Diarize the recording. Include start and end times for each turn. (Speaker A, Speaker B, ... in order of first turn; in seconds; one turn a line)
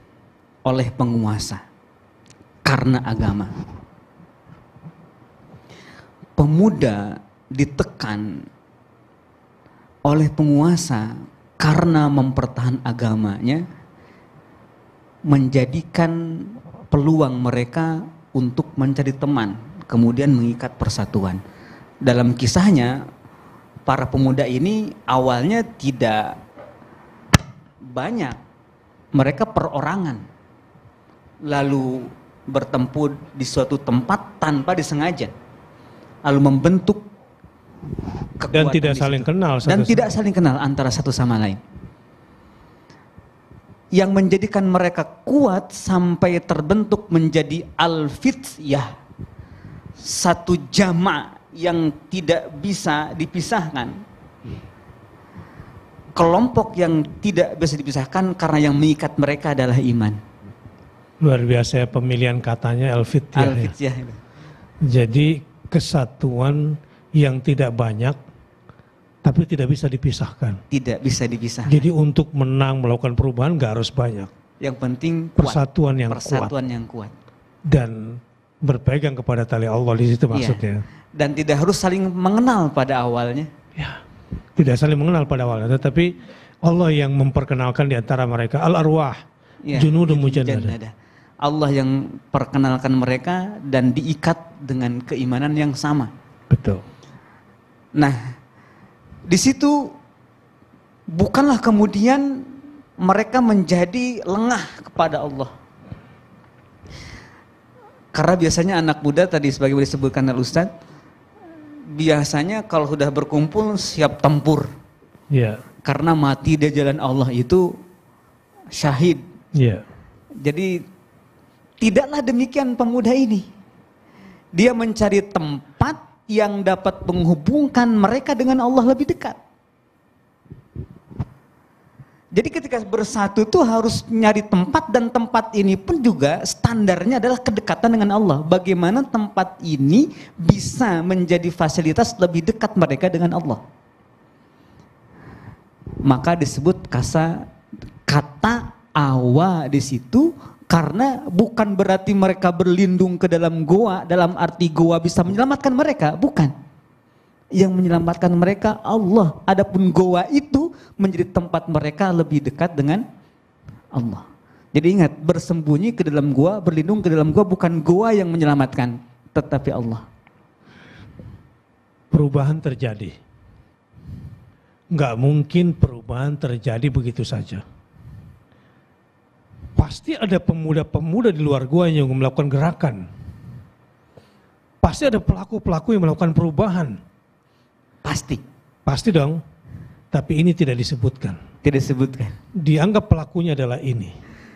Speaker A: 0.7-1.6
Speaker A: 2.6-3.5
Speaker A: 6.4-8.4
Speaker A: 10.1-13.6
Speaker A: 15.3-21.4
Speaker A: 22.0-23.0
Speaker A: 23.9-26.4
Speaker A: 27.9-28.4
Speaker A: 29.1-30.2
Speaker A: 31.5-35.3
Speaker A: 36.2-37.0
Speaker A: 38.4-41.6
Speaker B: 38.5-40.1
Speaker A: 43.9-48.9
Speaker A: 50.0-54.0
Speaker A: 56.1-60.2
Speaker B: 61.2-63.7
Speaker A: 63.3-64.2
Speaker B: 64.8-68.2
Speaker B: 69.2-70.6
Speaker A: 70.7-71.8
Speaker B: 71.7-74.3
Speaker A: 74.6-77.1
Speaker B: 75.4-76.5
Speaker B: 77.7-78.0
Speaker B: 78.6-80.8
Speaker A: 80.3-80.6
Speaker A: 81.2-83.5
Speaker B: 84.6-89.2
Speaker A: 89.6-90.9
Speaker B: 89.7-90.7
Speaker A: 91.4-96.1
Speaker B: 96.5-96.8
Speaker A: 99.3-99.9
Speaker A: 101.1-102.5
Speaker A: 103.0-105.5
Speaker A: 108.1-110.7
Speaker A: 111.9-114.7
Speaker B: 115.3-115.6
Speaker A: 115.8-117.7
Speaker A: 118.7-119.2
Speaker B: 119.5-119.8
Speaker A: 120.4-120.8
Speaker A: 121.8-123.4
Speaker A: 124.5-129.4
Speaker A: 132.3-143.6
Speaker A: 146.0-147.4
Speaker A: 148.1-156.5
Speaker A: 157.6-163.0
Speaker A: 163.9-170.0
Speaker B: 172.1-173.2
Speaker B: 174.9-177.6
Speaker B: 179.8-183.1
Speaker B: 184.8-186.9
Speaker A: 188.0-188.4
Speaker B: 188.8-189.4
Speaker B: 190.1-191.4
Speaker A: 191.6-192.3
Speaker B: 192.6-194.2